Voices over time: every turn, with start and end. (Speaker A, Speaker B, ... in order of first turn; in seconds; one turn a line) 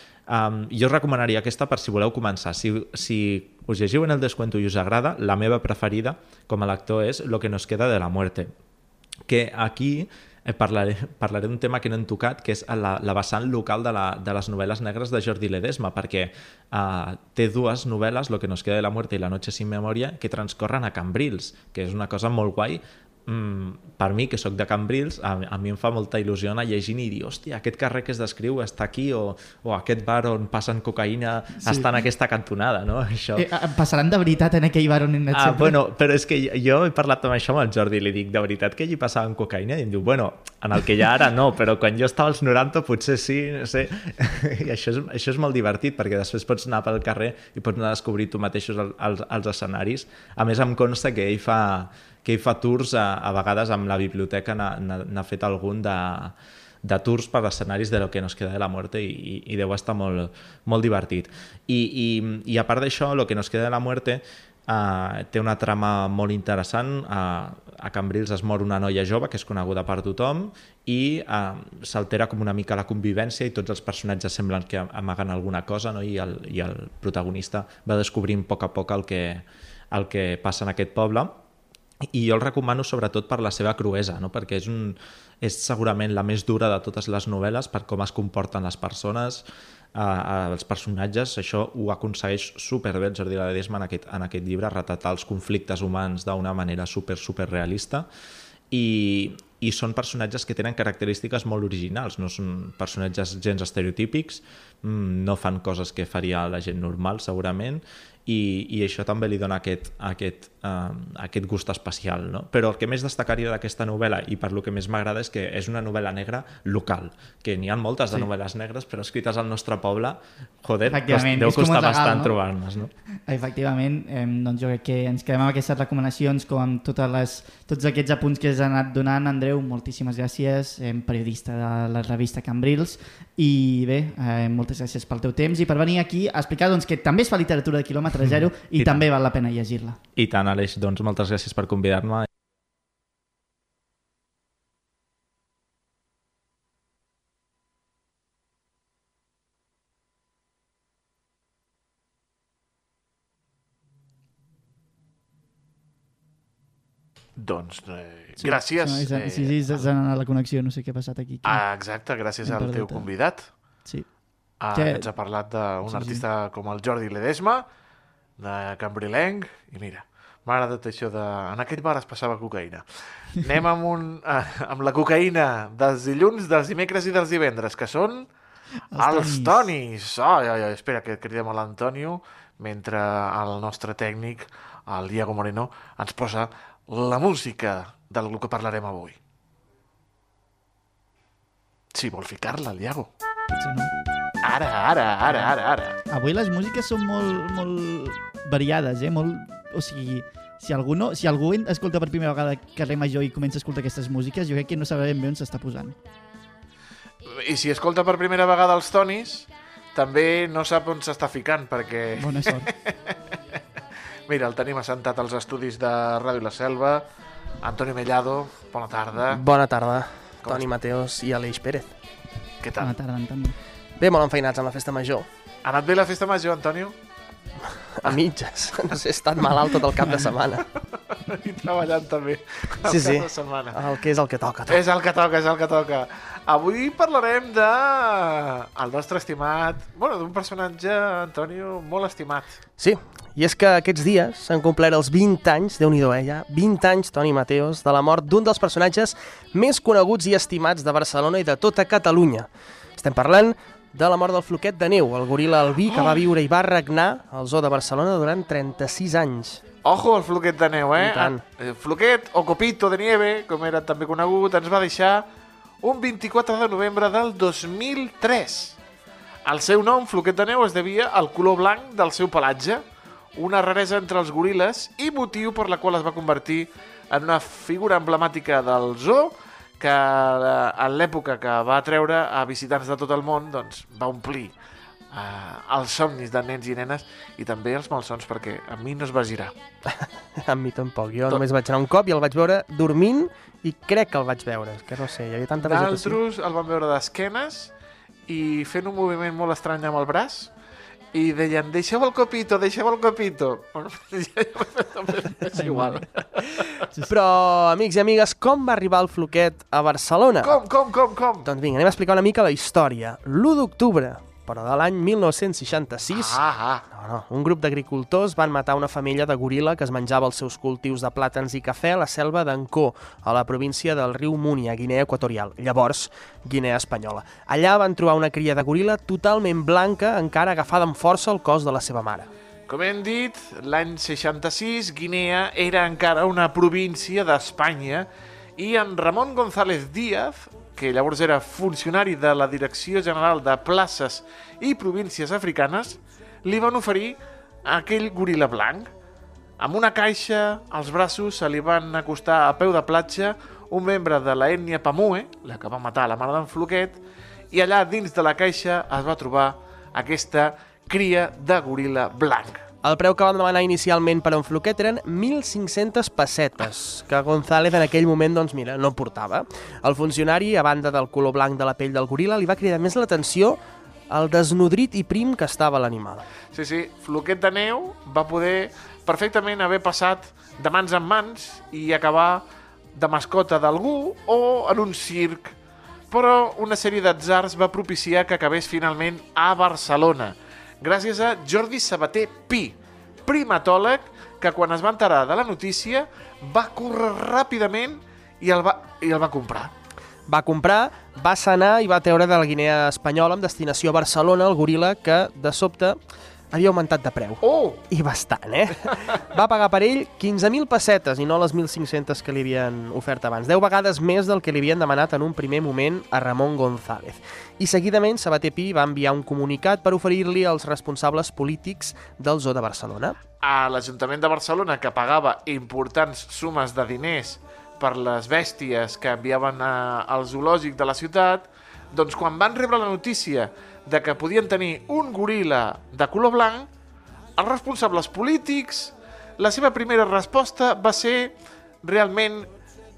Speaker A: 0.3-8.5
Speaker A: 9.3-33.5
Speaker B: 33.4-35.8
Speaker A: 35.3-81.3
Speaker A: 82.1-98.1
Speaker A: 98.7-122.9
Speaker B: 120.9-122.4
Speaker B: 123.3-140.0
Speaker A: 138.2-139.1
Speaker A: 140.2-142.3
Speaker C: 157.4-159.9
Speaker B: 158.4-161.6
Speaker C: 161.4-163.6
Speaker B: 162.4-163.1
Speaker B: 163.8-165.1
Speaker C: 164.6-167.7
Speaker B: 165.9-166.2
Speaker C: 168.4-178.3
Speaker B: 178.9-179.7
Speaker C: 179.0-189.2
Speaker C: 191.9-193.1
Speaker B: 193.5-193.9
Speaker C: 194.4-196.0
Speaker B: 195.2-195.5
Speaker B: 196.1-206.0
Speaker C: 207.3-213.0
Speaker B: 212.2-212.7
Speaker C: 214.3-217.1
Speaker C: 217.6-219.4
Speaker D: 219.3-222.0
Speaker C: 222.6-222.9
Speaker B: 222.8-223.6
Speaker D: 224.0-225.3
Speaker C: 225.6-227.0
Speaker D: 228.0-230.7
Speaker C: 231.2-233.9
Speaker D: 232.8-234.8
Speaker C: 234.7-242.6
Speaker D: 242.8-259.6
Speaker C: 255.8-256.3
Speaker C: 259.8-265.3
Speaker D: 261.0-261.4
Speaker C: 265.8-268.8
Speaker C: 269.4-272.8
Speaker C: 273.4-284.5
Speaker C: 285.1-289.5
Speaker D: 290.0-296.2
Speaker C: 295.6-297.7
Speaker C: 298.3-300.5
Speaker C: 301.1-306.7
Speaker B: 305.5-306.1
Speaker D: 307.1-310.6
Speaker C: 310.4-311.5
Speaker D: 311.4-316.4
Speaker C: 316.1-316.8
Speaker D: 316.9-332.3
Speaker C: 332.7-348.9
Speaker C: 349.6-357.0
Speaker C: 357.5-362.6
Speaker D: 362.8-373.6
Speaker D: 374.1-376.2
Speaker C: 376.5-385.6
Speaker C: 386.1-399.7
Speaker D: 400.3-406.0
Speaker D: 406.5-423.2
Speaker C: 407.4-407.8
Speaker C: 423.4-436.7
Speaker C: 437.4-442.5